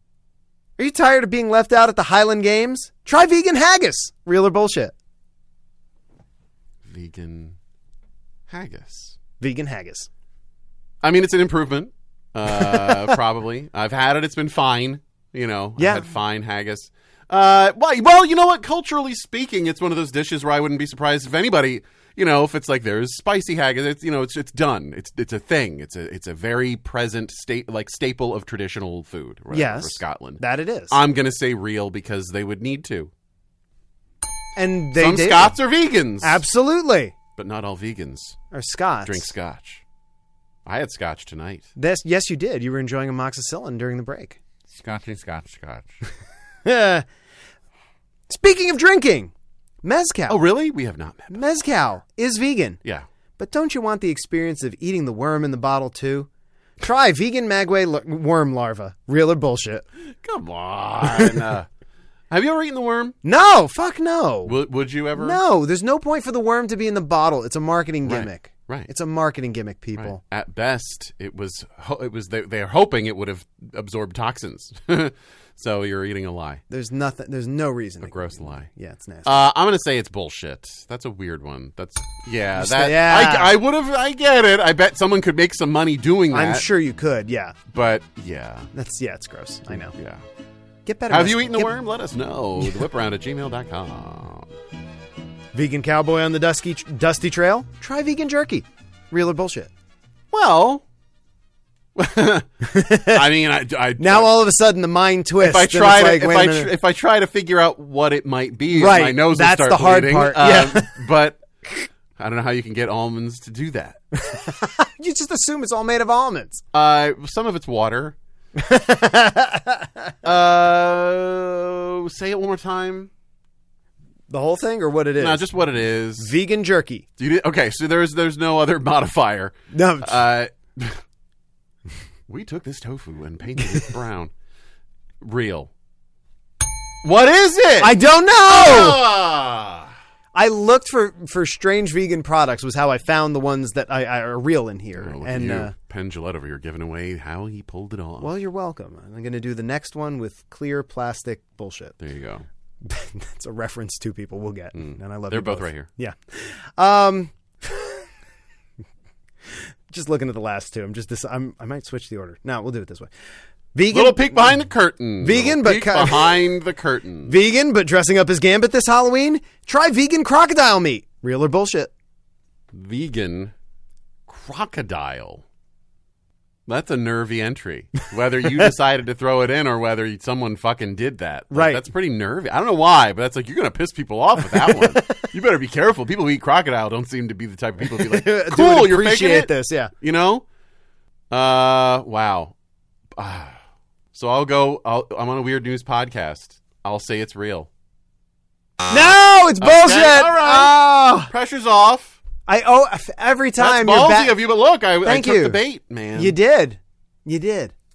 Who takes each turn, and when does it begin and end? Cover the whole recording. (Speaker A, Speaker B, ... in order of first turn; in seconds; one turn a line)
Speaker A: 0.8-4.9
Speaker B: 6.8-7.6
Speaker B: 8.5-9.2
Speaker A: 9.4-10.1
Speaker B: 11.0-33.1
Speaker A: 15.8-16.1
Speaker A: 29.5-31.0
Speaker A: 34.6-35.6
Speaker B: 35.0-36.4
Speaker A: 36.2-37.1
Speaker B: 37.4-38.4
Speaker A: 38.5-39.3
Speaker B: 39.0-39.8
Speaker B: 40.7-41.7
Speaker A: 41.8-44.4
Speaker B: 44.7-45.9
Speaker A: 46.6-47.0
Speaker A: 48.3-49.3
Speaker A: 49.8-50.4
Speaker B: 50.3-51.4
Speaker A: 51.3-52.8
Speaker A: 53.4-59.9
Speaker B: 60.1-61.7
Speaker B: 62.3-63.2
Speaker A: 63.2-64.5
Speaker B: 64.5-65.4
Speaker A: 65.2-70.2
Speaker B: 68.0-68.9
Speaker B: 70.0-76.6
Speaker A: 76.7-79.4
Speaker B: 78.0-78.7
Speaker B: 79.2-86.7
Speaker A: 82.6-83.5
Speaker A: 86.3-87.6
Speaker B: 87.7-88.7
Speaker A: 88.7-89.9
Speaker B: 89.7-90.2
Speaker A: 90.9-91.7
Speaker B: 91.1-94.5
Speaker A: 95.5-99.7
Speaker B: 100.3-100.8
Speaker B: 102.0-104.3
Speaker A: 102.6-103.3
Speaker A: 104.0-106.7
Speaker B: 105.4-111.4
Speaker A: 108.7-111.0
Speaker B: 112.2-114.0
Speaker A: 114.1-116.6
Speaker B: 116.7-118.2
Speaker A: 118.6-120.1
Speaker B: 120.2-123.1
Speaker A: 124.3-125.5
Speaker B: 125.2-126.3
Speaker A: 126.2-127.0
Speaker B: 127.2-131.0
Speaker A: 129.7-130.2
Speaker B: 132.3-134.3
Speaker B: 135.2-135.7
Speaker B: 137.0-139.9
Speaker A: 137.8-139.1
Speaker A: 140.3-145.7
Speaker B: 145.0-148.3
Speaker A: 148.2-152.0
Speaker B: 152.0-152.4
Speaker A: 152.8-158.0
Speaker B: 154.8-155.9
Speaker A: 159.9-163.1
Speaker A: 163.8-164.6
Speaker B: 163.9-167.3
Speaker A: 165.2-166.4
Speaker A: 167.3-171.9
Speaker B: 172.7-173.5
Speaker B: 174.3-175.4
Speaker B: 176.7-190.4
Speaker A: 181.5-181.8
Speaker A: 184.5-185.3
Speaker A: 187.9-189.9
Speaker B: 191.3-192.5
Speaker B: 193.2-193.6
Speaker B: 194.1-197.7
Speaker A: 198.9-201.3
Speaker B: 199.6-202.2
Speaker A: 202.5-204.4
Speaker B: 203.6-206.4
Speaker A: 205.0-205.6
Speaker A: 206.2-207.7